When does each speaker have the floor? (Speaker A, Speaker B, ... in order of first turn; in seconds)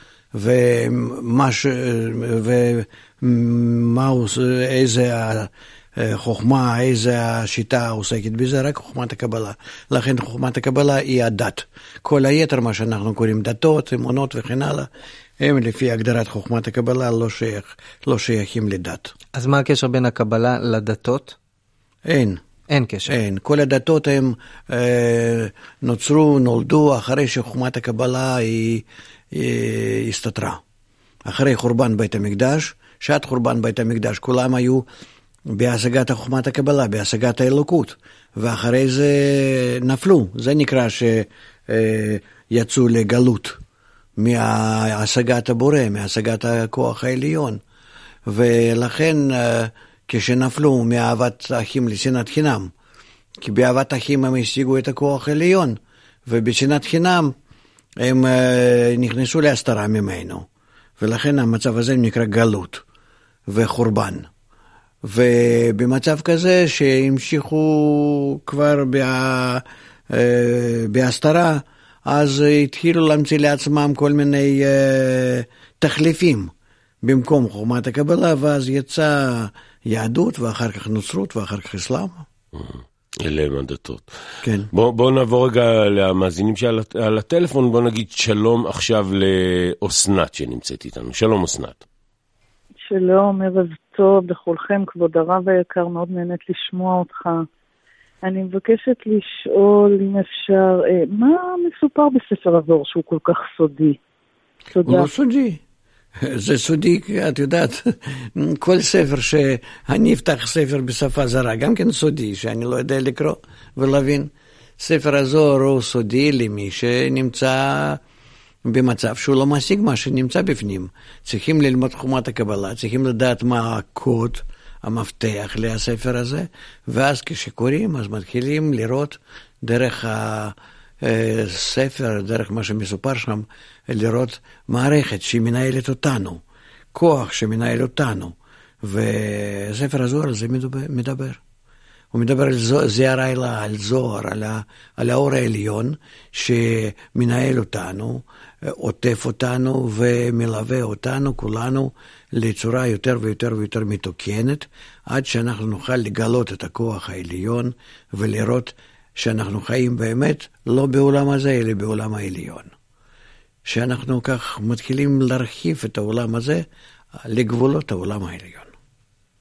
Speaker A: 0.3-19.1, 22.1-22.4, 23.1-30.6, 31.2-34.9, 35.5-43.6, 44.2-47.6, 48.3-52.7, 53.4-57.3, 58.0-60.5, 61.0-62.8, 63.5-64.3, 65.0-76.5, 77.0-82.2, 84.4-84.7, 104.8-105.6, 106.2-118.0, 118.7-136.4, 136.9-141.4, 142.1-162.7, 163.7-166.7, 167.2-168.7
Speaker B: 19.4-21.4, 22.7-23.1
Speaker C: 82.6-84.1, 84.7-91.8
Speaker D: 92.9-97.5, 98.2-104.0, 104.7-105.1